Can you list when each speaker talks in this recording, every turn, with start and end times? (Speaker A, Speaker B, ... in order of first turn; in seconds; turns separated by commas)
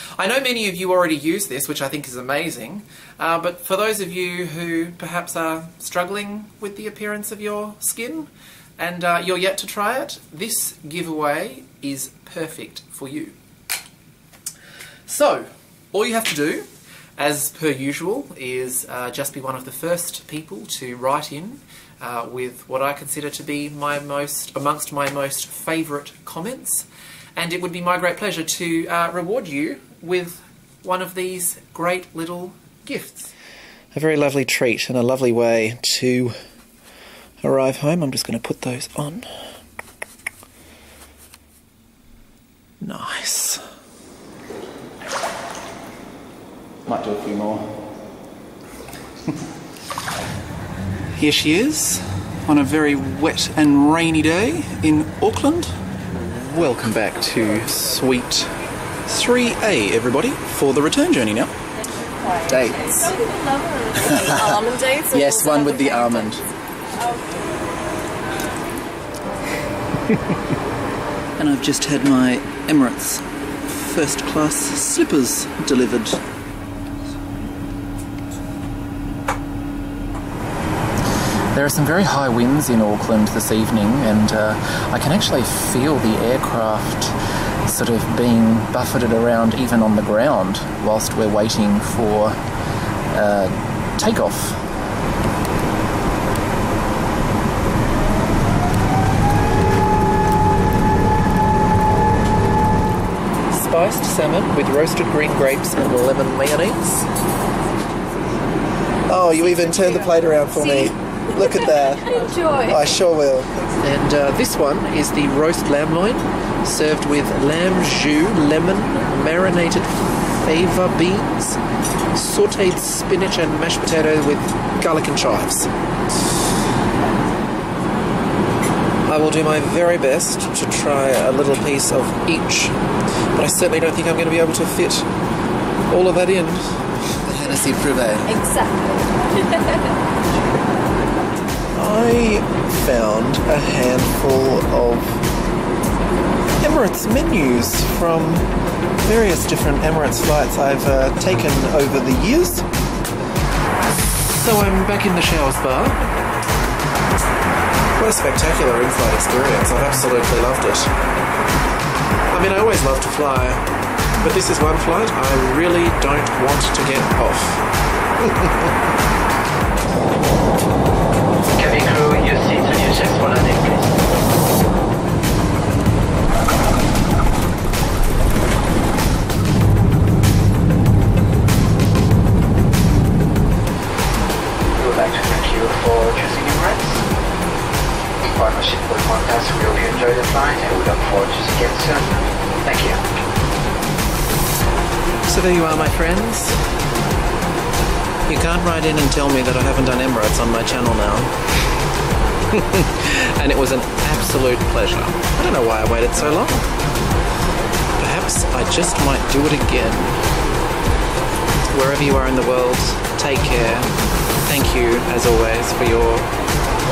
Speaker A: 0.2-13.4, Speaker A: 15.1-33.3, Speaker A: 33.9-36.4, Speaker A: 37.4-39.3, Speaker A: 42.8-43.6, Speaker A: 46.9-47.8, Speaker A: 51.2-58.5, Speaker A: 59.0-61.5, Speaker B: 61.8-67.4, Speaker A: 62.5-63.1, Speaker A: 64.0-64.6, Speaker A: 65.1-66.4, Speaker A: 71.4-76.2, Speaker A: 81.5-92.4, Speaker A: 93.1-94.6, Speaker A: 103.5-107.1, Speaker A: 109.1-121.6, Speaker B: 109.5-112.8, Speaker A: 122.1-125.7, Speaker A: 129.1-132.8, Speaker A: 133.3-135.1, Speaker A: 135.9-138.3, Speaker B: 138.3-139.8, Speaker A: 141.8-145.2, Speaker A: 146.6-148.5, Speaker A: 149.0-152.7, Speaker A: 153.9-156.1, Speaker A: 158.0-160.9, Speaker A: 162.3-163.6, Speaker A: 164.2-167.6, Speaker C: 171.6-174.0, Speaker C: 184.8-187.1, Speaker C: 188.2-193.0, Speaker A: 195.3-196.6, Speaker A: 198.3-201.3, Speaker A: 202.5-206.7, Speaker A: 208.0-210.3, Speaker A: 211.7-216.3